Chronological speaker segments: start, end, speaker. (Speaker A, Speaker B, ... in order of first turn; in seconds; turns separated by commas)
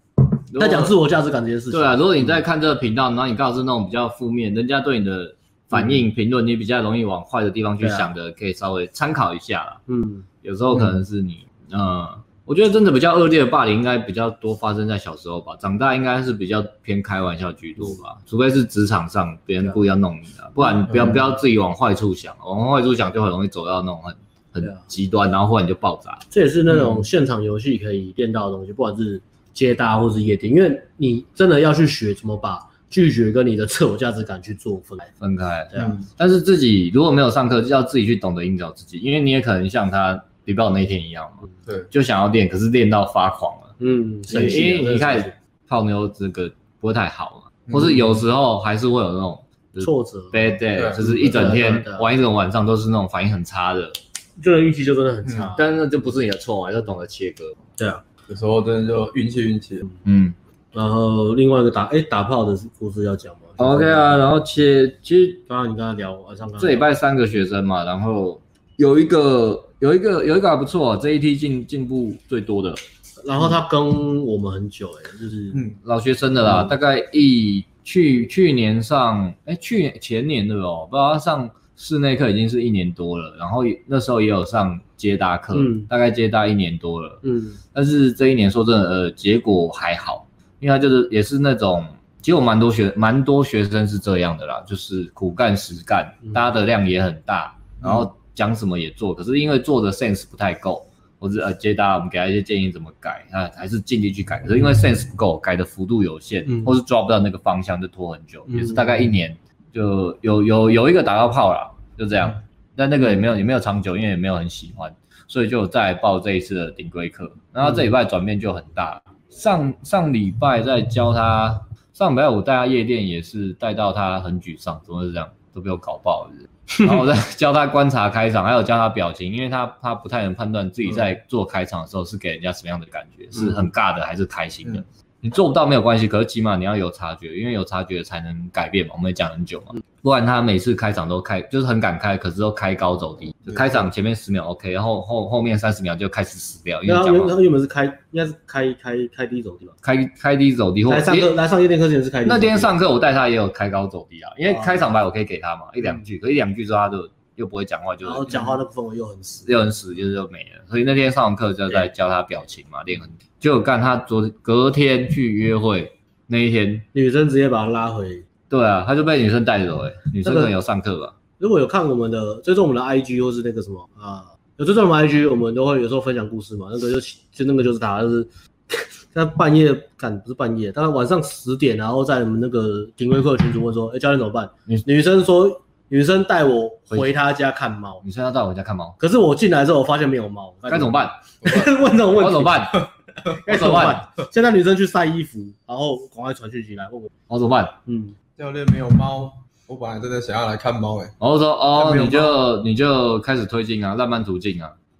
Speaker A: 0.4-0.9, Speaker B: 0.6-2.4, Speaker A: 1.7-9.8, Speaker B: 7.8-8.1, Speaker B: 9.9-10.3, Speaker A: 10.4-26.2, Speaker C: 20.9-21.2, Speaker B: 26.3-35.1, Speaker A: 35.2-43.7, Speaker C: 35.8-36.0, Speaker B: 43.8-45.4, Speaker A: 44.3-54.0, Speaker B: 49.8-52.1, Speaker B: 54.4-55.7, Speaker A: 55.5-57.5, Speaker B: 57.8-58.0, Speaker C: 58.3-59.9, Speaker A: 60.0-60.4, Speaker B: 60.7-64.2, Speaker A: 63.6-65.4, Speaker B: 65.5-66.9, Speaker A: 66.6-72.8, Speaker B: 73.2-75.6, Speaker A: 75.8-87.2, Speaker B: 76.4-76.7, Speaker B: 85.5-85.9, Speaker B: 87.2-87.6, Speaker A: 87.7-147.4, Speaker B: 108.5-108.8, Speaker B: 146.9-149.8, Speaker A: 149.8-151.3, Speaker B: 150.9-152.8, Speaker A: 152.2-158.6, Speaker B: 154.5-154.8, Speaker B: 158.0-159.5, Speaker A: 159.4-166.9, Speaker B: 166.9-168.3, Speaker A: 168.5-171.1, Speaker B: 170.2-170.5, Speaker B: 171.4-188.0, Speaker A: 188.0-189.0, Speaker B: 189.0-192.8, Speaker A: 190.7-191.2, Speaker A: 192.1-192.8, Speaker B: 193.4-197.1, Speaker A: 193.4-194.0, Speaker A: 197.3-197.8, Speaker B: 197.9-198.1, Speaker C: 198.4-201.1, Speaker A: 201.2-204.7, Speaker C: 201.8-202.4